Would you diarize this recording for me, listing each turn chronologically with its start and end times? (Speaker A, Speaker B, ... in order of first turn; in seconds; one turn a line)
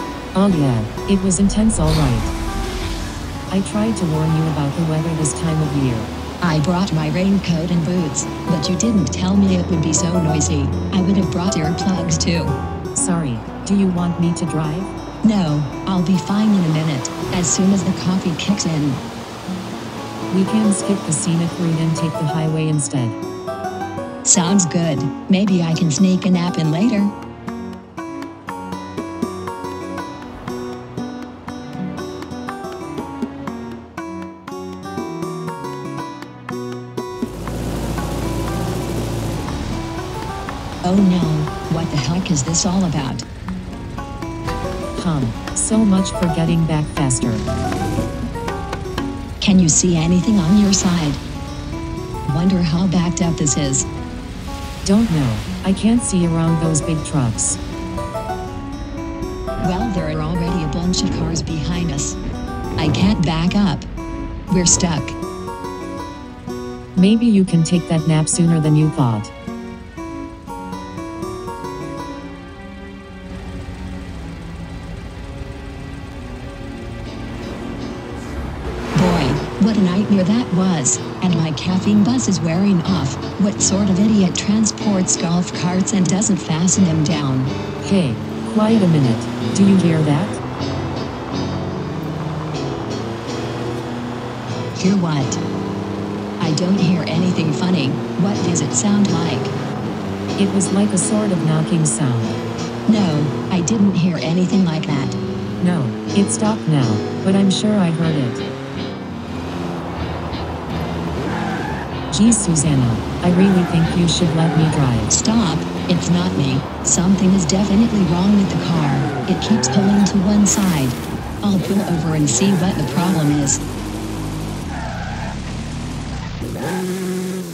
Speaker A: 0.3-2.3
Speaker A: 3.5-6.1
Speaker B: 6.4-12.6
Speaker A: 12.9-14.9
Speaker B: 15.2-19.0
Speaker A: 20.3-23.2
Speaker B: 24.2-27.1
Speaker B: 40.8-43.2
Speaker A: 45.0-47.5
Speaker B: 49.4-51.2
Speaker B: 52.3-53.9
Speaker A: 54.8-57.6
Speaker B: 59.6-62.2
Speaker B: 62.8-63.9
Speaker B: 64.5-65.2
Speaker A: 67.0-69.3
Speaker B: 79.0-87.5
Speaker A: 87.8-90.4
Speaker B: 94.8-95.4
Speaker B: 96.4-99.5
Speaker A: 100.4-102.4
Speaker B: 102.9-105.2
Speaker A: 105.6-108.5
Speaker A: 112.1-115.1
Speaker B: 115.1-123.6